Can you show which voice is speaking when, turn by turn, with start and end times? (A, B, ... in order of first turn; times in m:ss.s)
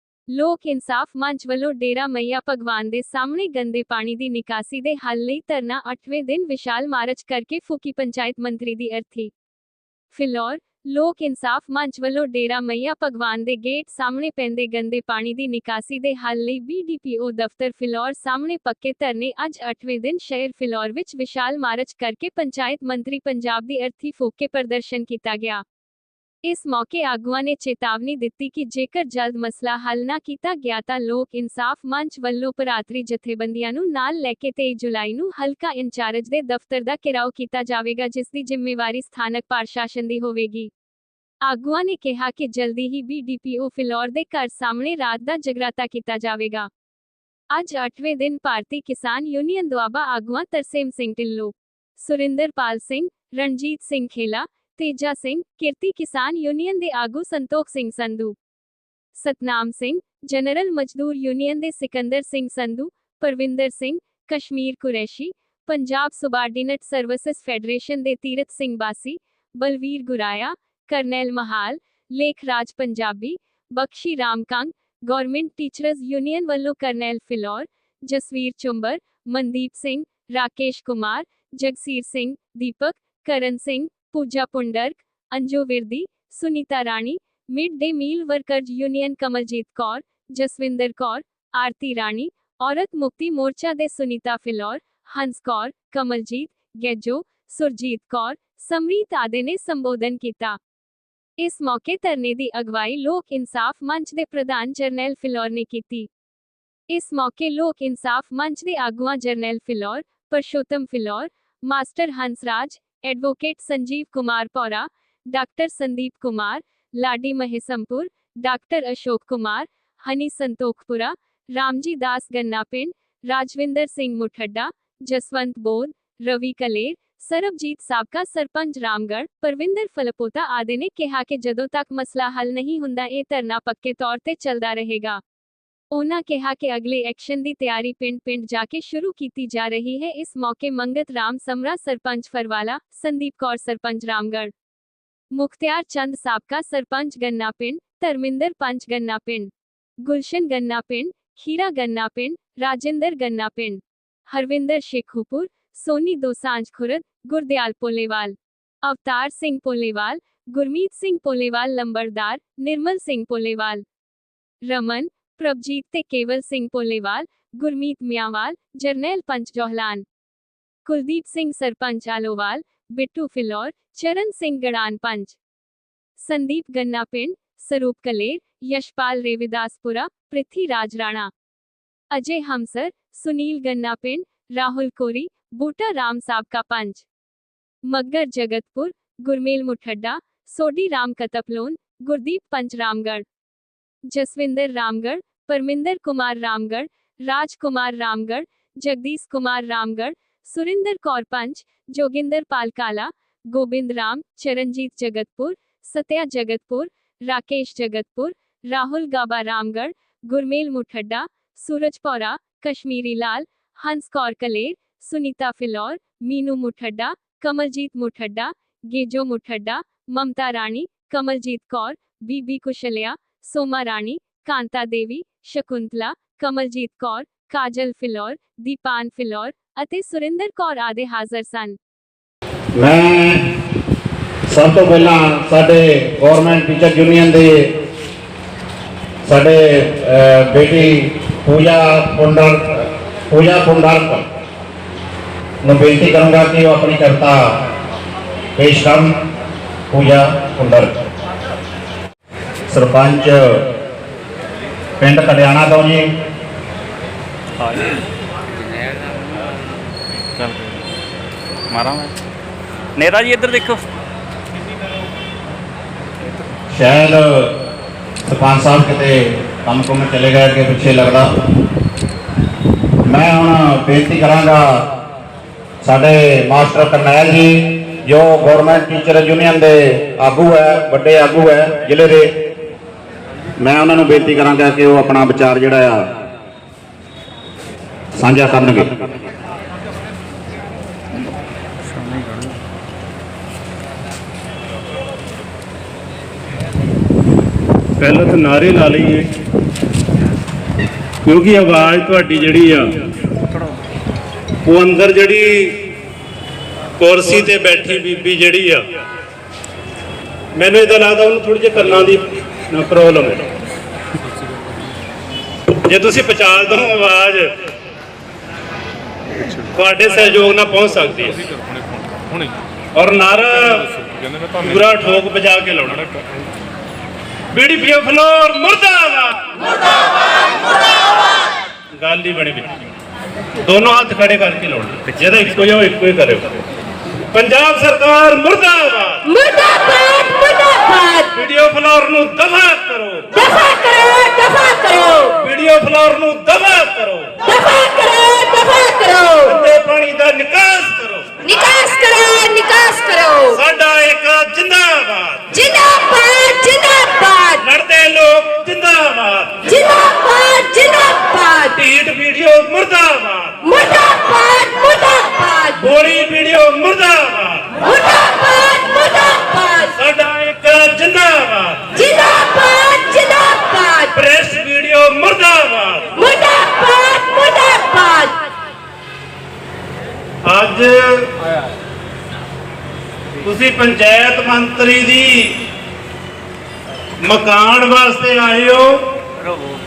0:00.3-0:09.3 A
0:10.2-0:25.6 A
0:26.5-0:40.7 A
0:41.5-0:46.7 A
0:47.5-0:58.4 A
0:59.2-1:40.6 A
1:41.4-1:46.1 A
1:46.9-2:15.2 A
2:15.9-2:24.5 A
2:25.4-2:29.5 A
2:30.1-2:43.8 A
2:44.7-2:50.0 A
2:50.9-2:55.4 A
2:56.2-3:01.3 A
3:02.1-3:07.0 A
3:07.9-3:13.2 A
3:14.1-3:51.8 A
3:52.8-3:53.5 B
3:54.5-3:57.5 B
3:59.3-4:04.2 B
4:05.6-4:07.4 B
4:08.6-4:09.2 B
4:09.9-4:10.9 B
4:12.7-4:13.4 B
4:15.0-4:16.0 B
4:17.6-4:17.9 C
4:20.4-4:20.7 C
4:21.7-4:22.1 C
4:23.0-4:23.8 C
4:26.7-4:27.2 B
4:28.3-4:31.3 B
4:33.0-4:34.6 B
4:35.8-4:42.4 B
4:43.6-4:46.1 B
4:48.2-4:49.0 B
4:58.0-4:59.3 D
5:01.2-5:02.9 D
5:04.6-5:05.7 D
5:07.0-5:08.8 D
5:10.6-5:13.4 D
5:15.8-5:17.5 D
5:19.7-5:21.5 D
5:23.0-5:23.9 D
5:24.6-5:26.1 D
5:27.5-5:29.5 D
5:32.0-5:32.7 D
5:33.6-5:36.6 D
5:37.3-5:39.2 D
5:39.2-5:41.3 E
5:41.4-5:43.3 D
5:43.4-5:45.4 E
5:45.4-5:47.3 D
5:47.5-5:49.6 E
5:49.5-5:51.3 D
5:51.4-5:53.6 E
5:53.5-5:55.4 D
5:55.5-5:57.6 E
5:57.6-5:59.6 D
5:59.7-6:01.8 E
6:01.8-6:03.6 D
6:03.6-6:05.8 E
6:05.8-6:07.7 D
6:07.8-6:09.9 E
6:09.9-6:11.9 D
6:11.9-6:14.1 E
6:14.1-6:16.1 D
6:16.2-6:18.5 E
6:20.5-6:21.3 D
6:23.4-6:25.5 D
6:27.2-6:29.0 D